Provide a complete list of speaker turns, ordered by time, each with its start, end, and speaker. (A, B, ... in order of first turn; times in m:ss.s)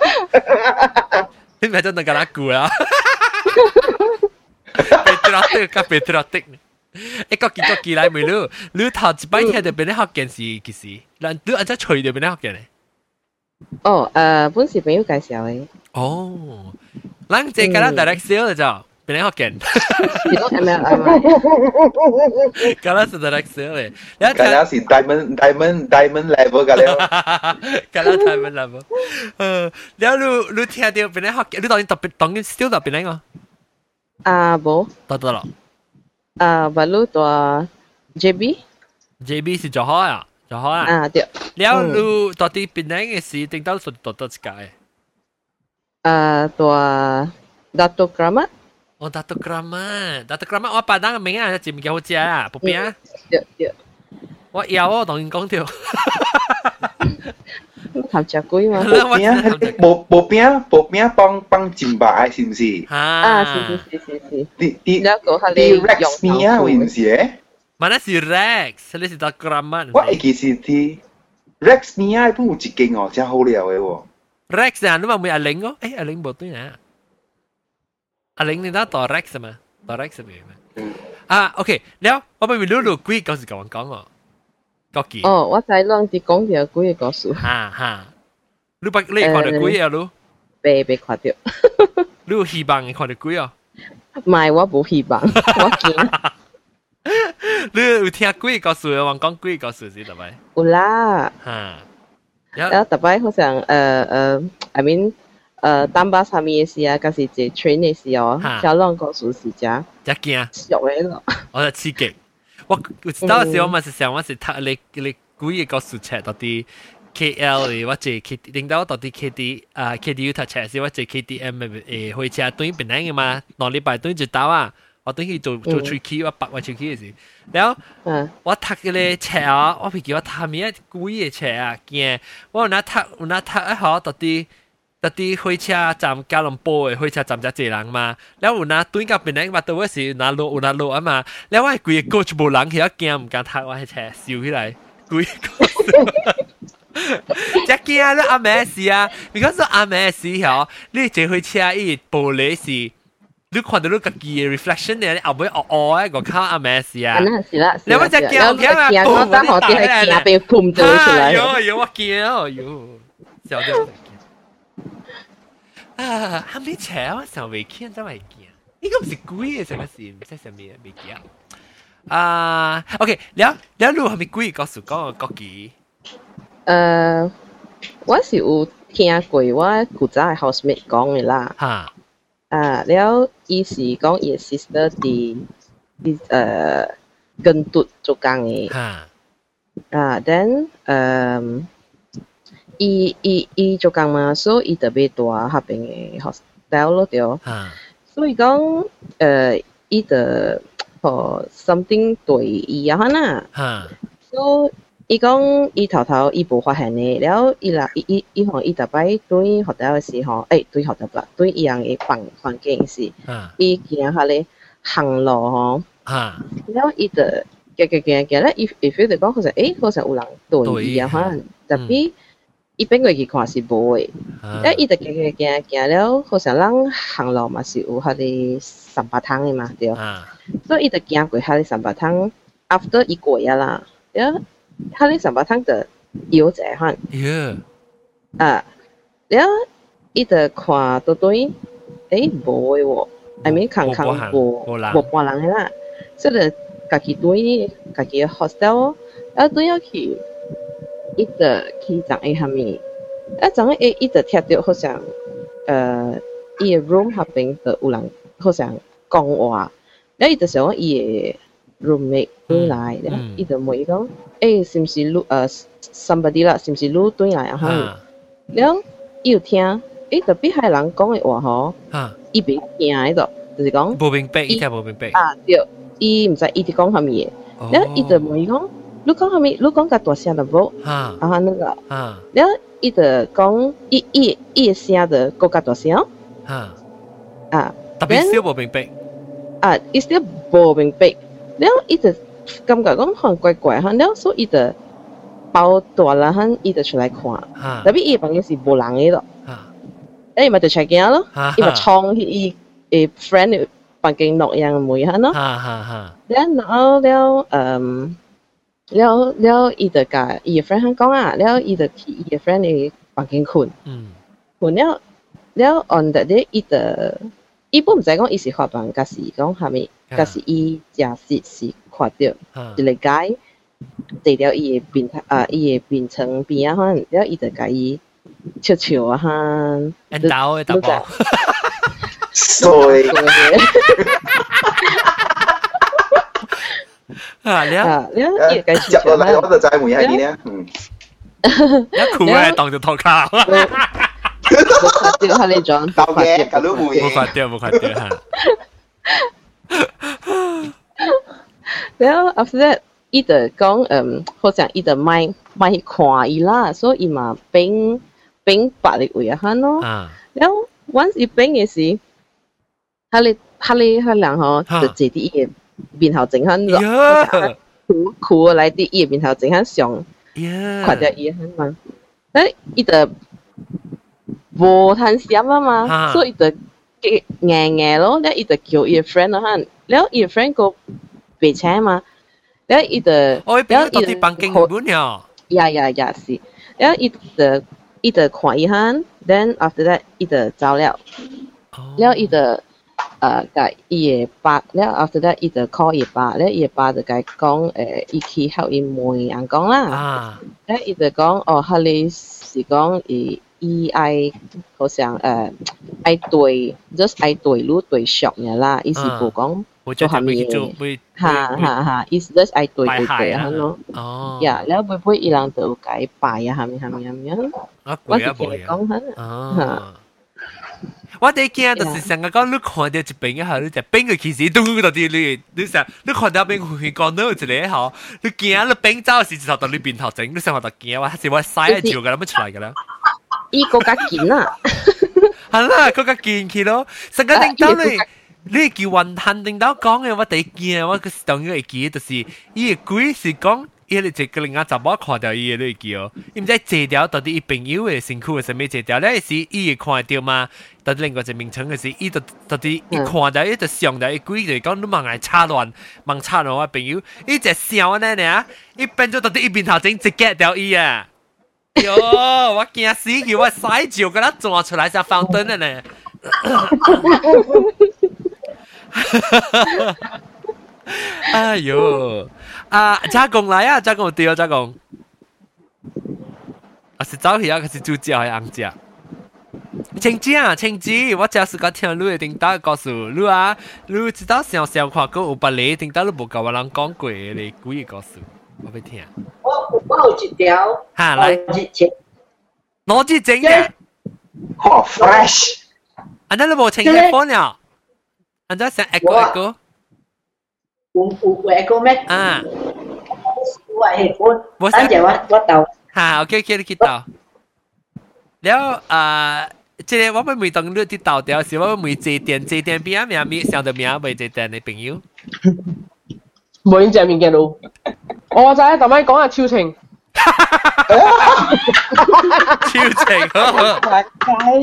0:01.6-0:03.5 A
0:04.8-0:12.7 A
0:09.4-0:09.7 B
0:13.8-0:15.7 B
0:16.0-0:16.8 A
0:17.3-0:20.4 A
0:17.6-0:18.2 B
0:20.1-0:21.3 B
0:22.6-0:24.6 A
0:24.4-0:27.1 C
0:26.8-0:33.2 A
0:34.3-0:34.9 B
0:35.1-0:35.5 A
0:36.4-0:38.6 B
0:39.2-0:40.9 A
0:40.8-0:42.0 B
0:41.6-0:44.7 A
0:46.0-0:48.5 B
0:49.0-0:53.0 A
0:52.6-0:53.7 B
0:54.5-0:56.7 A
0:57.9-0:59.0 B
0:58.8-0:59.8 A
0:58.9-1:02.9 C
1:02.9-1:03.8 A
1:03.2-1:06.9 B
1:04.6-1:07.4 C
1:07.8-1:10.2 A
1:09.9-1:11.0 C
1:11.6-1:14.0 C
1:14.5-1:16.8 A
1:18.4-1:20.6 A
1:21.3-1:24.1 A
1:24.9-1:25.3 A
1:25.2-1:27.5 B
1:27.4-1:28.1 A
1:28.8-1:30.1 A
1:29.2-1:29.8 B
1:30.6-1:32.0 B
1:32.3-1:33.5 A
1:34.2-1:36.1 B
1:35.5-1:36.3 A
1:37.1-1:40.4 A
1:40.6-1:41.3 B
1:41.4-1:41.8 A
1:42.6-1:49.9 B
1:48.4-1:48.7 A
1:50.0-1:50.5 A
1:50.5-1:51.4 B
1:51.5-1:52.2 A
1:52.7-2:07.8 A
1:53.2-1:53.8 B
2:05.7-2:06.0 B
2:08.1-2:08.3 B
2:08.4-2:14.5 A
2:15.0-2:26.4 A
2:27.0-2:32.9 A
2:33.5-2:37.3 A
2:37.1-2:41.6 B
2:37.9-2:44.2 A
2:46.0-2:51.2 A
2:52.1-2:55.7 A
2:56.7-2:57.3 B
2:58.1-3:01.6 B
3:01.6-3:01.9 A
3:02.5-3:05.5 B
3:06.0-3:08.7 B
3:08.7-3:09.1 A
3:09.9-3:11.7 B
3:12.8-3:17.4 B
3:17.4-3:17.8 A
3:18.1-3:23.5 B
3:23.6-3:23.9 A
3:24.3-3:35.9 B
3:33.3-3:33.5 A
3:36.1-3:36.4 A
3:36.6-3:42.1 B
3:40.6-3:42.0 A
3:42.8-3:50.0 B
3:44.4-3:44.8 A
3:50.0-3:50.3 A
3:50.7-3:54.4 B
3:54.9-3:57.0 B
3:57.1-3:57.6 A
3:58.4-3:58.6 B
3:59.3-3:59.6 B
4:00.2-4:01.6 B
4:02.1-4:10.2 B
4:03.4-4:05.0 A
4:11.2-4:12.8 B
4:13.4-4:15.1 B
4:15.7-4:27.9 B
4:22.5-4:23.4 A
4:27.6-4:28.0 A
4:28.5-4:31.8 B
4:32.3-4:41.8 B
4:34.0-4:35.2 A
4:37.6-4:38.4 A
4:40.8-4:41.2 A
4:41.9-4:42.2 A
4:42.3-4:46.1 B
4:46.5-4:46.8 A
4:47.5-4:48.4 B
4:48.0-4:48.9 A
4:49.6-4:54.8 B
4:55.5-4:59.2 B
4:57.6-4:57.9 A
5:00.4-5:05.4 B
5:01.4-5:01.9 A
5:05.3-5:06.1 A
5:06.3-5:08.2 B
5:08.9-5:13.8 B
5:13.9-5:14.2 A
5:14.6-5:15.0 B
5:15.6-5:23.4 B
5:20.1-5:20.4 A
5:22.6-5:22.8 A
5:24.2-5:28.0 B
5:28.6-5:31.1 B
5:30.1-5:31.6 A
5:32.4-5:34.2 C
5:32.6-5:34.2 B
5:37.4-5:37.9 A
5:37.8-5:40.2 B
5:38.4-5:40.7 C
5:41.4-5:42.6 B
5:42.0-5:44.1 A
5:43.5-5:43.8 B
5:44.5-5:45.3 C
5:44.8-5:46.9 B
5:46.0-5:47.3 C
5:47.0-5:48.2 A
5:49.8-5:50.7 A
5:51.7-6:02.0 B
5:59.8-6:00.1 A
6:03.1-6:10.1 B
6:04.7-6:04.9 A
6:06.7-6:07.5 A
6:10.4-6:11.1 A
6:10.8-6:11.8 B
6:12.3-6:13.1 B
6:14.6-6:20.8 B
6:15.8-6:16.3 A
6:21.4-6:22.0 B
6:22.7-6:24.7 B
6:23.4-6:25.2 A
6:25.5-6:31.0 B
6:31.7-6:32.4 A
6:32.0-6:32.6 B
6:33.2-6:40.0 B
6:39.9-6:40.4 A
6:40.6-6:53.8 B
6:49.0-6:49.3 A
6:49.8-6:51.7 A
6:52.9-6:54.6 A
6:54.4-6:57.5 B
6:57.8-7:00.0 A
6:58.1-6:59.8 B
7:01.2-7:12.8 A
7:01.8-7:02.1 B
7:11.7-7:12.0 B
7:13.5-7:15.3 B
7:15.5-7:41.1 A
7:17.3-7:18.0 B
7:41.8-7:42.1 B
7:41.8-7:47.3 A
7:48.9-7:50.0 A
7:50.9-7:54.8 A
7:57.0-7:58.8 A
8:00.0-8:09.1 A
8:09.4-8:11.9 D
8:11.0-8:11.4 A
8:12.9-8:13.7 A
8:14.6-8:15.6 C
8:16.3-8:17.6 A
8:16.8-8:17.1 D
8:18.5-8:19.6 A
8:19.0-8:19.3 D
8:21.0-8:22.2 D
8:22.1-8:22.5 A
8:23.7-8:25.7 D
8:24.6-8:25.1 A
8:25.9-8:27.0 A
8:28.4-8:35.0 A
8:36.7-8:37.6 E
8:38.3-8:39.8 E
8:40.2-8:41.4 A
8:41.2-8:41.5 C
8:42.6-8:43.8 A